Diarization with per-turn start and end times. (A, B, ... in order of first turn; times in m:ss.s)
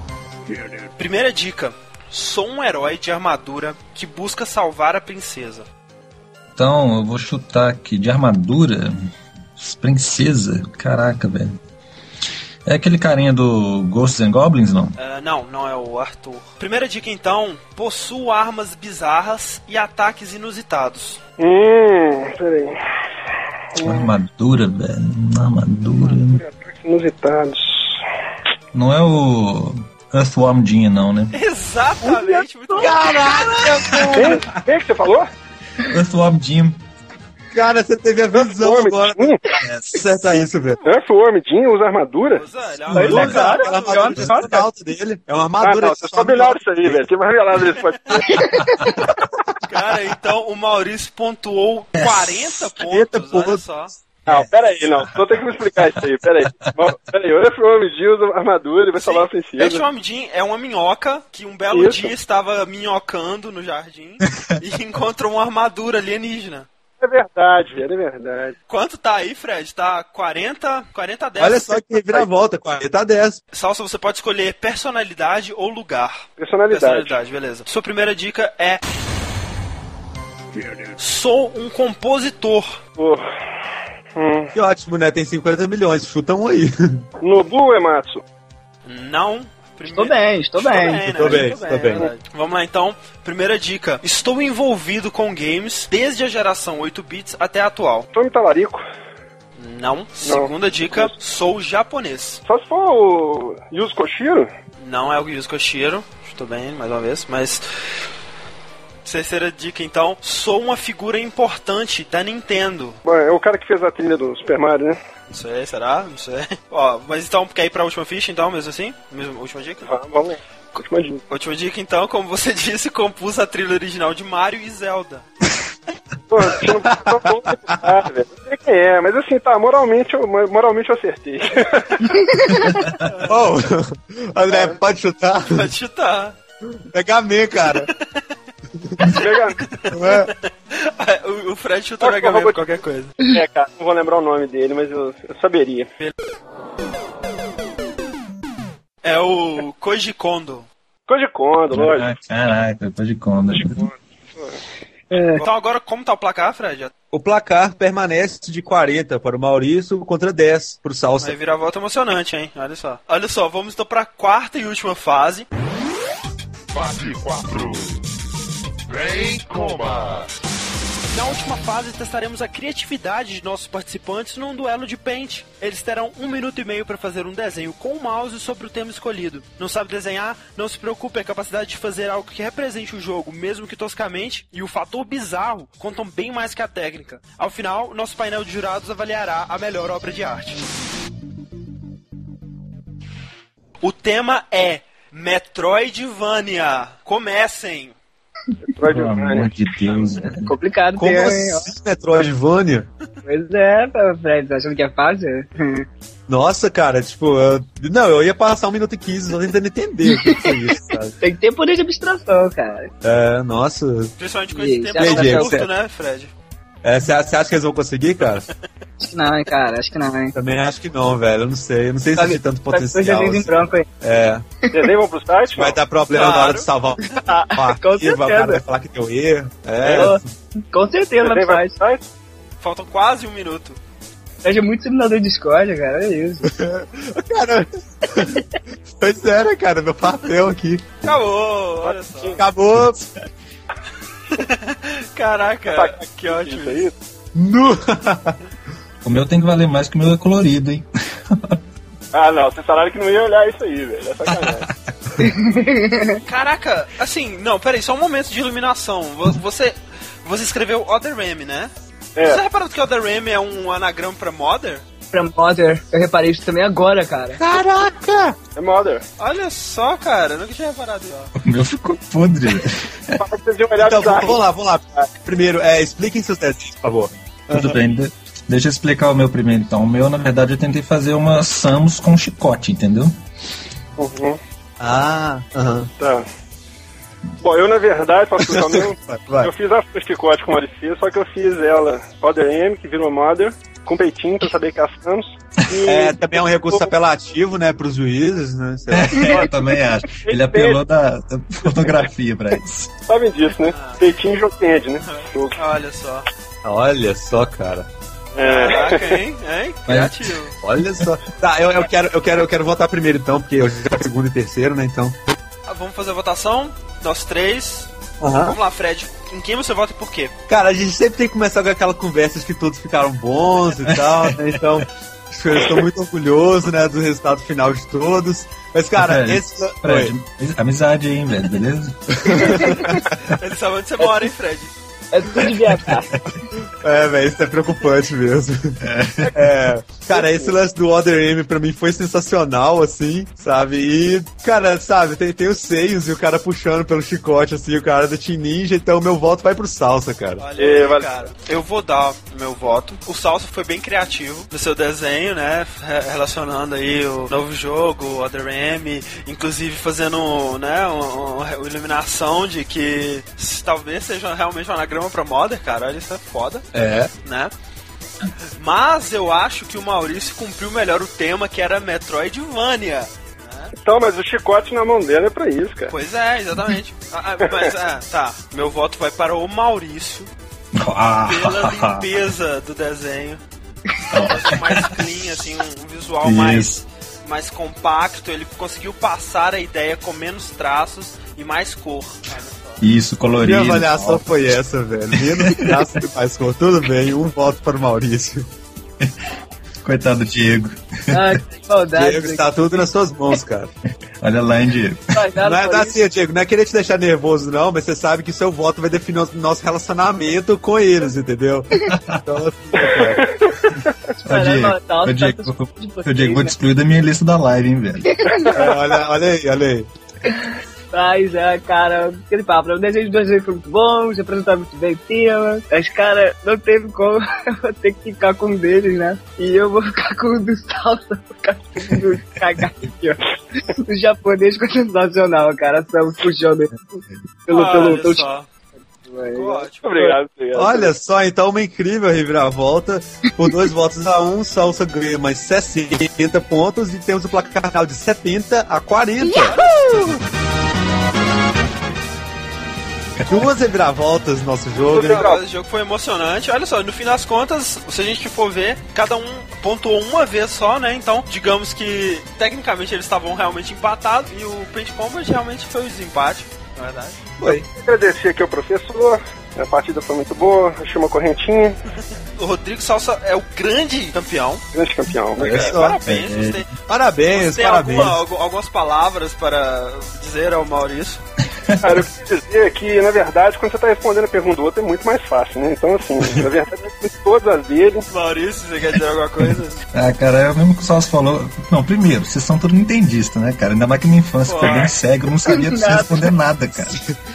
0:00.9-0:05.7 A
0:06.6-0:11.6 B
0:12.6-0:15.0 B
0:15.0-0:21.2 A
0:21.4-0:22.8 C
0:23.7-0:24.1 C
0:23.8-0:26.4 B
0:26.3-0:28.0 C
0:28.7-0:31.4 B
0:31.3-0:33.5 A
0:32.8-0:34.4 D
0:33.8-0:34.1 B
0:34.1-0:35.3 C
0:35.8-0:36.8 B
0:37.5-0:39.4 D
0:38.4-0:39.4 C
0:39.6-0:40.1 B
0:39.9-0:40.8 D
0:40.8-0:42.5 C
0:42.3-0:44.1 A
0:42.9-0:43.4 B
0:42.9-0:44.5 E
0:43.2-0:47.0 D
0:45.6-0:48.4 C
0:48.3-0:48.8 E
0:49.7-0:53.9 A
0:52.0-0:52.4 B
0:52.8-0:53.6 D
0:54.3-0:55.2 B
0:54.3-0:59.8 C
0:55.7-0:56.8 B
0:58.9-1:06.7 A
1:01.7-1:02.1 C
1:07.0-1:08.6 C
1:08.7-1:12.2 A
1:11.4-1:13.4 D
1:13.5-1:18.8 A
1:16.4-1:17.2 C
1:20.5-1:20.9 C
1:21.0-1:22.8 A
1:23.0-1:23.2 C
1:24.1-1:24.5 C
1:24.5-1:27.0 D
1:27.2-1:28.2 C
1:28.8-1:38.1 A
1:29.8-1:31.0 E
1:31.1-1:32.0 D
1:38.1-1:38.8 C
1:39.6-1:42.4 A
1:40.2-1:41.1 C
1:42.4-1:44.5 C
1:44.8-1:47.6 A
1:49.0-1:53.0 A
1:53.0-1:55.0 C
1:55.3-1:59.9 A
1:59.8-2:01.2 C
2:01.3-2:05.2 A
2:06.3-2:11.9 C
2:07.0-2:07.8 D
2:12.0-2:12.8 E
2:13.0-2:13.5 A
2:13.2-2:15.7 D
2:15.5-2:16.4 A
2:16.9-2:17.9 D
2:17.8-2:18.0 A
2:19.1-2:19.6 C
2:19.2-2:23.2 A
2:19.9-2:20.3 D
2:22.0-2:22.6 C
2:23.2-2:25.9 C
2:29.0-2:30.7 A
2:31.1-2:32.1 C
2:31.7-2:33.9 B
2:33.5-2:34.6 C
2:35.1-2:35.4 E
2:35.4-2:36.9 A
2:37.1-2:41.4 D
2:41.2-2:45.5 A
2:46.7-2:48.0 F
2:48.9-2:50.3 F
2:51.1-3:10.6 A
3:13.8-3:17.9 A
3:18.7-3:20.0 C
3:18.9-3:20.6 B
3:20.4-3:21.7 E
3:21.0-3:22.9 D
3:23.2-3:25.8 E
3:26.3-3:31.1 D
3:30.2-3:30.5 E
3:31.2-3:32.9 E
3:33.0-3:34.1 D
3:34.2-3:36.3 A
3:34.5-3:35.5 E
3:35.0-3:35.7 D
3:36.8-3:38.5 D
3:39.0-3:40.3 E
3:40.3-3:44.4 D
3:42.2-3:43.8 E
3:44.7-3:45.8 C
3:45.6-3:47.0 D
3:46.1-3:46.6 A
3:47.1-3:48.6 E
3:47.5-3:50.2 D
3:49.9-3:50.2 E
3:50.7-3:51.7 E
3:51.2-3:52.1 C
3:52.6-3:53.8 A
3:54.4-3:56.5 E
3:56.4-3:58.4 D
3:59.0-4:00.9 D
4:01.0-4:02.4 A
4:01.8-4:02.4 C
4:02.4-4:03.0 D
4:04.3-4:06.8 A
4:05.7-4:06.9 C
4:07.3-4:08.4 D
4:09.0-4:11.6 B
4:12.1-4:14.6 C
4:14.3-4:14.6 B
4:15.2-4:16.2 E
4:16.2-4:21.7 A
4:22.2-4:22.4 C
4:22.2-4:24.8 A
4:25.1-4:27.4 E
4:27.3-4:28.4 D
4:28.5-4:29.0 C
4:29.2-4:31.3 A
4:31.4-4:33.2 B
4:33.2-4:34.4 C
4:33.8-4:37.8 D
4:37.5-4:43.1 B
4:44.0-4:44.4 C
4:44.8-4:45.9 D
4:46.0-4:46.2 C
4:47.4-4:56.9 C
4:48.8-4:49.5 D
4:55.8-4:59.4 D
4:58.9-5:02.9 B
4:59.1-5:00.8 C
5:03.0-5:05.6 C
5:03.6-5:04.1 A
5:05.0-5:06.2 A
5:06.6-5:07.9 D
5:08.3-5:09.2 C
5:08.4-5:10.6 A
5:09.9-5:10.1 B
5:10.6-5:15.2 D
5:15.7-5:17.9 A
5:18.2-5:18.6 D
5:18.4-5:20.3 A
5:20.5-5:30.1 D
5:23.9-5:24.6 B
5:29.0-5:32.3 B
5:32.1-5:33.0 D
5:32.4-5:33.0 E
5:33.1-5:33.4 B
5:33.3-5:34.7 A
5:35.1-5:36.1 E
5:35.8-5:36.4 B
5:36.6-5:38.8 D
5:38.8-5:39.3 B
5:39.3-5:50.4 D
5:40.1-5:40.6 C
5:50.4-6:06.6 A
5:50.6-5:51.3 C
6:06.7-6:07.1 D
6:07.2-6:07.5 A
6:08.6-6:13.7 A
6:13.8-6:15.9 C
6:15.9-6:20.3 A
6:17.4-6:17.7 C
6:20.7-6:22.0 B
6:21.2-6:23.4 A
6:24.1-6:25.0 B
6:24.2-6:32.8 A
6:26.2-6:26.8 B
6:32.8-6:34.3 B
6:33.4-6:38.5 D
6:35.1-6:35.6 B
6:39.8-6:41.4 B
6:41.1-6:42.8 E
6:41.9-6:43.7 D
6:44.2-6:45.2 B
6:45.1-6:46.0 E
6:45.4-6:53.2 D
6:51.8-6:52.2 B
6:52.8-6:53.5 C
6:54.2-6:56.5 E
6:54.2-6:58.1 B
6:58.1-6:58.6 E
6:58.5-6:58.9 C
6:58.5-6:59.9 D
7:00.9-7:13.2 E
7:13.7-7:18.2 E
7:17.5-7:18.5 A
7:19.0-7:19.6 E
7:19.3-7:20.2 A
7:19.8-7:20.9 C
7:20.5-7:29.5 D
7:29.5-7:30.0 A
7:33.3-7:35.3 D
7:34.7-7:47.2 A
7:34.9-7:35.4 C
7:47.6-7:51.8 C
7:52.3-7:54.6 A
7:54.7-7:55.7 C
7:55.4-7:56.0 D
7:55.4-7:56.7 A
7:56.0-7:56.6 B
7:56.9-7:58.2 D
7:57.3-8:01.2 A
8:01.6-8:02.1 B
8:01.8-8:08.1 C
8:08.1-8:09.8 A
8:09.4-8:17.0 B
8:14.4-8:15.0 A
8:15.4-8:16.3 E